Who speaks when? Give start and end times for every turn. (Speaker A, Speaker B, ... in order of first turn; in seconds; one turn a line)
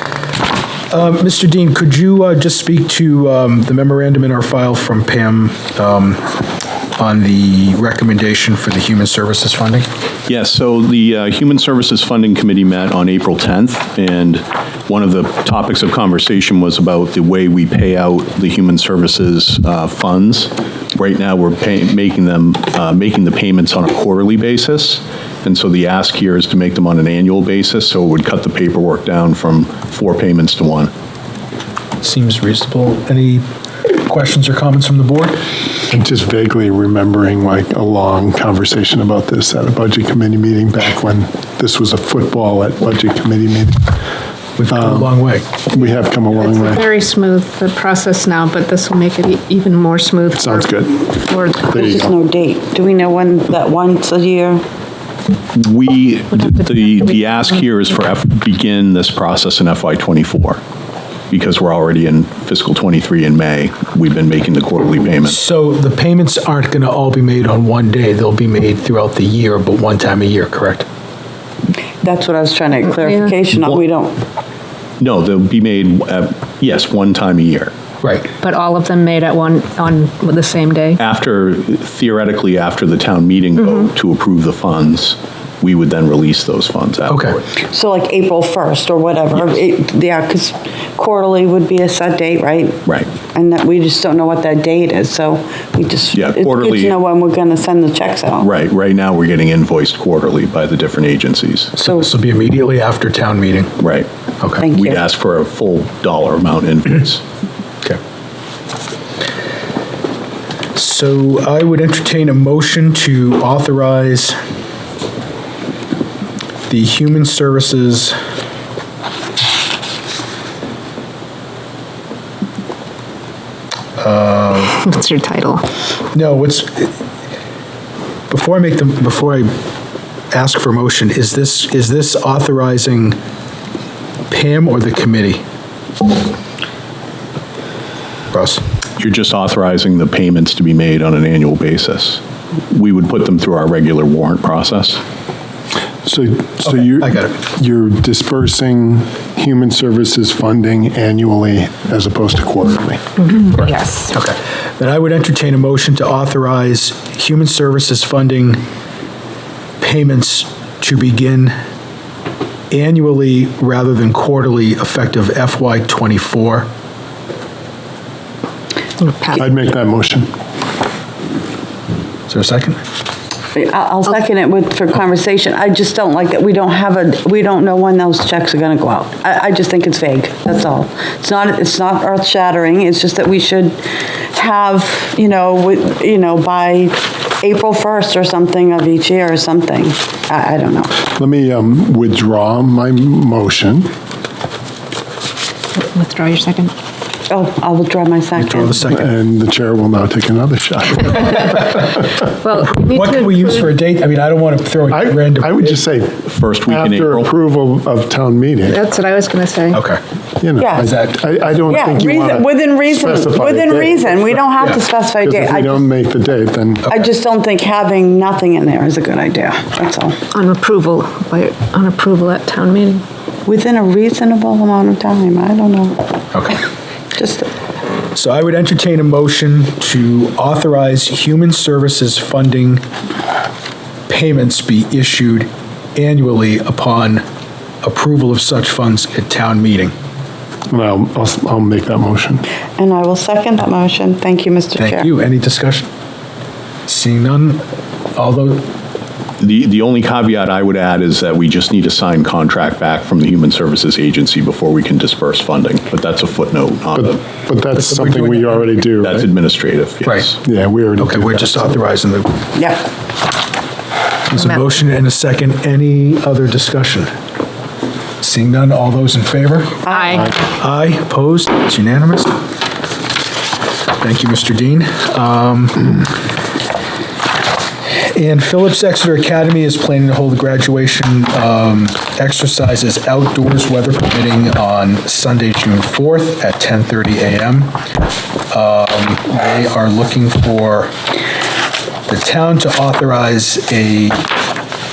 Speaker A: 0.9-6.3
Speaker A: 7.0-9.9
Speaker B: 10.3-30.9
Speaker A: 32.0-33.4
Speaker A: 34.0-35.4
Speaker C: 35.9-43.9
Speaker A: 44.6-45.5
Speaker C: 44.7-45.1
Speaker C: 45.7-46.8
Speaker D: 46.3-50.7
Speaker C: 50.3-52.1
Speaker D: 51.3-52.0
Speaker E: 51.7-54.6
Speaker B: 55.5-60.6
Speaker B: 61.3-65.4
Speaker A: 65.2-70.8
Speaker E: 72.0-74.2
Speaker D: 72.9-73.3
Speaker B: 75.0-77.7
Speaker A: 78.0-78.3
Speaker D: 78.4-81.0
Speaker B: 81.0-87.4
Speaker A: 87.1-87.4
Speaker E: 87.7-98.5
Speaker B: 92.8-93.1
Speaker B: 96.1-97.0
Speaker B: 98.4-101.7
Speaker A: 101.8-103.7
Speaker B: 103.8-104.1
Speaker E: 104.6-105.0
Speaker B: 104.7-107.2
Speaker A: 110.7-114.3
Speaker A: 116.7-118.2
Speaker A: 124.0-124.8
Speaker D: 124.8-125.6
Speaker A: 126.1-126.9
Speaker A: 128.3-129.5
Speaker A: 130.3-133.2
Speaker A: 134.3-135.4
Speaker A: 138.3-138.6
Speaker B: 139.0-145.0
Speaker C: 146.0-153.0
Speaker A: 146.6-147.3
Speaker D: 153.3-154.1
Speaker A: 154.1-158.6
Speaker A: 159.8-161.5
Speaker A: 162.7-166.7
Speaker D: 169.0-169.4
Speaker C: 169.3-170.3
Speaker A: 172.3-172.8
Speaker E: 173.5-183.8
Speaker E: 184.3-190.9
Speaker C: 191.2-193.9
Speaker D: 195.8-196.7
Speaker E: 197.3-198.8
Speaker A: 198.4-199.1
Speaker C: 198.9-201.6
Speaker D: 201.6-203.7
Speaker A: 202.8-205.8
Speaker C: 204.9-208.8
Speaker B: 206.3-207.3
Speaker D: 208.7-209.8
Speaker A: 209.7-210.0
Speaker C: 210.4-214.4
Speaker E: 210.6-210.9
Speaker A: 210.8-211.1
Speaker E: 211.7-215.8
Speaker C: 215.2-217.0
Speaker E: 216.9-220.2
Speaker D: 220.3-223.0
Speaker E: 223.4-226.0
Speaker A: 226.3-226.6
Speaker E: 227.2-227.5
Speaker A: 228.1-232.8
Speaker A: 234.1-237.2
Speaker A: 237.8-239.9
Speaker C: 240.7-242.4
Speaker E: 242.8-245.1
Speaker A: 244.8-245.9
Speaker A: 246.9-247.6
Speaker A: 248.2-248.7
Speaker B: 249.4-257.2
Speaker C: 256.9-259.3
Speaker A: 257.7-259.0
Speaker B: 259.0-260.3
Speaker A: 260.0-260.3
Speaker C: 260.4-261.8
Speaker A: 261.0-262.4
Speaker E: 262.5-262.8
Speaker A: 264.3-267.1
Speaker A: 268.2-269.8
Speaker E: 269.8-270.2
Speaker D: 269.9-270.4
Speaker A: 270.4-272.3
Speaker A: 274.0-276.1
Speaker A: 278.1-287.7
Speaker A: 288.5-290.9
Speaker A: 292.1-294.2